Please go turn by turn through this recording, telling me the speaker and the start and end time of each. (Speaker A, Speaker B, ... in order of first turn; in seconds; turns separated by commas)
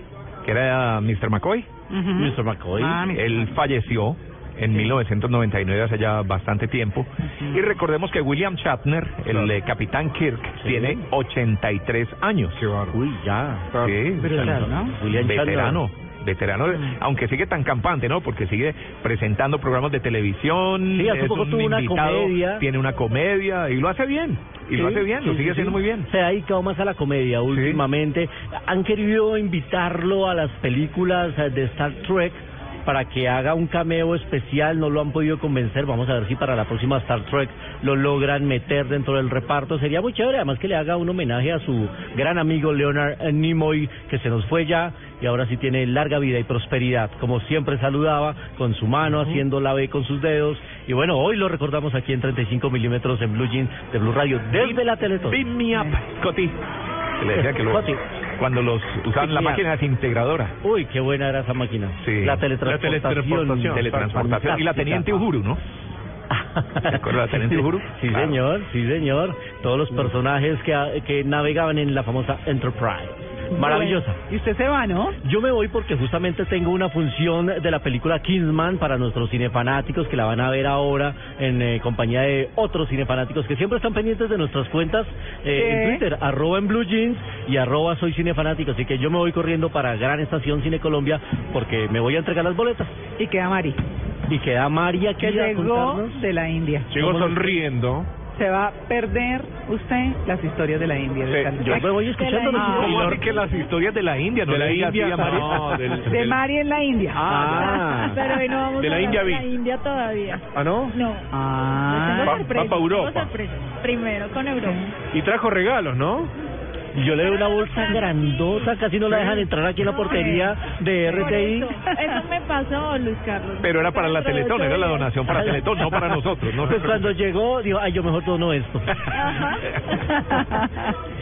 Speaker A: 0.4-1.7, Speaker B: 1.9-3.5, Speaker C: 2.1-3.1, Speaker A: 3.1-12.7, Speaker C: 10.6-11.1, Speaker D: 12.5-13.0, Speaker C: 12.9-15.8, Speaker D: 13.7-14.0, Speaker A: 13.8-26.1, Speaker B: 14.2-14.9, Speaker C: 20.9-22.6, Speaker C: 24.7-55.4, Speaker A: 27.5-27.8, Speaker A: 54.5-56.6, Speaker A: 57.2-60.5, Speaker C: 57.3-58.0, Speaker C: 59.1-59.6, Speaker C: 60.6-65.2, Speaker A: 62.0-62.4, Speaker D: 62.6-64.1, Speaker A: 63.6-65.6, Speaker C: 66.3-74.2, Speaker A: 66.8-68.4, Speaker B: 73.5-75.2, Speaker C: 75.2-93.0, Speaker B: 85.5-86.0, Speaker B: 93.2-93.8, Speaker C: 94.3-96.2, Speaker B: 95.2-96.9, Speaker D: 96.9-98.1, Speaker C: 96.9-97.5, Speaker B: 98.3-101.9, Speaker D: 101.3-101.9, Speaker C: 101.6-103.2, Speaker E: 102.0-103.3, Speaker B: 102.5-103.0, Speaker A: 102.7-106.0, Speaker D: 102.7-103.3, Speaker D: 104.5-106.4, Speaker B: 106.0-108.3, Speaker D: 107.1-107.8, Speaker C: 107.2-108.2, Speaker E: 107.9-111.3, Speaker D: 108.7-109.5, Speaker D: 110.5-111.0, Speaker B: 111.3-112.5, Speaker E: 111.9-114.9, Speaker D: 112.2-113.3, Speaker D: 115.1-116.3, Speaker C: 116.9-121.7, Speaker E: 117.2-118.4, Speaker D: 119.1-119.5, Speaker E: 119.8-120.5, Speaker E: 121.2-125.5, Speaker A: 123.6-127.1, Speaker C: 125.3-126.0, Speaker C: 126.5-129.1, Speaker E: 129.1-129.8, Speaker B: 129.9-130.9